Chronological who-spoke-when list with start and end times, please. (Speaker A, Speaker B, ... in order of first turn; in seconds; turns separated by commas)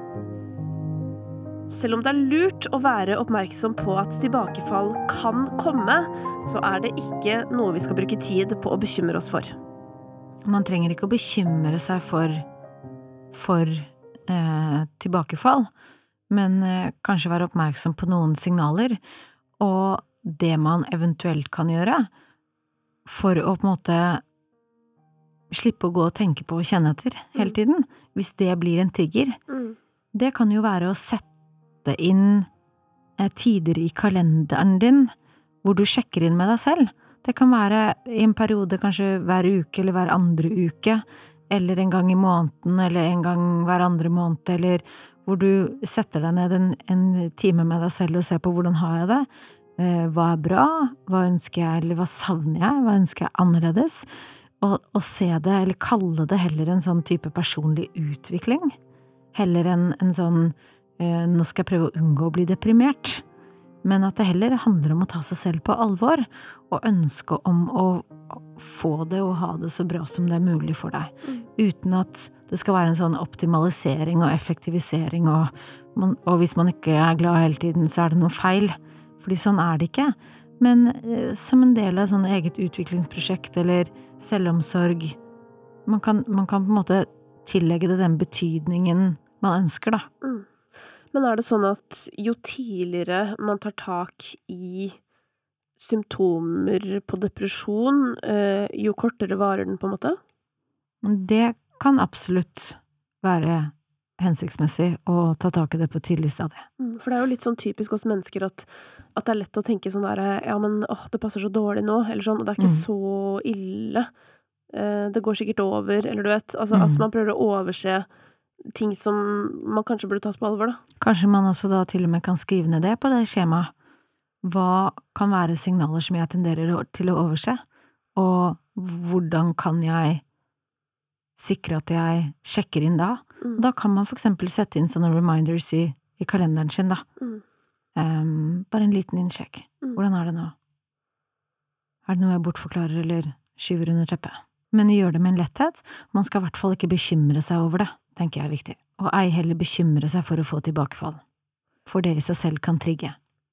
Speaker A: 1.7-9.6, Speaker B: 10.5-12.4, Speaker B: 13.3-15.7, Speaker B: 16.3-19.0, Speaker B: 19.6-22.1, Speaker B: 23.1-24.2, Speaker B: 25.5-29.4, Speaker A: 29.5-29.8, Speaker B: 30.1-31.3, Speaker B: 31.8-32.5, Speaker B: 33.2-35.1, Speaker B: 35.6-54.1, Speaker B: 54.6-58.8, Speaker B: 59.3-63.2, Speaker B: 63.8-85.2, Speaker B: 85.9-90.1, Speaker A: 90.2-90.5, Speaker A: 91.1-95.0, Speaker A: 95.8-100.2, Speaker B: 101.0-106.7, Speaker A: 106.8-114.1, Speaker B: 112.6-112.9, Speaker A: 114.7-118.1, Speaker B: 116.7-117.1, Speaker A: 118.7-120.8, Speaker B: 121.0-123.7, Speaker B: 124.4-127.6, Speaker B: 128.2-130.2, Speaker B: 131.4-137.0, Speaker B: 138.0-140.6, Speaker B: 142.1-151.2, Speaker B: 151.9-153.2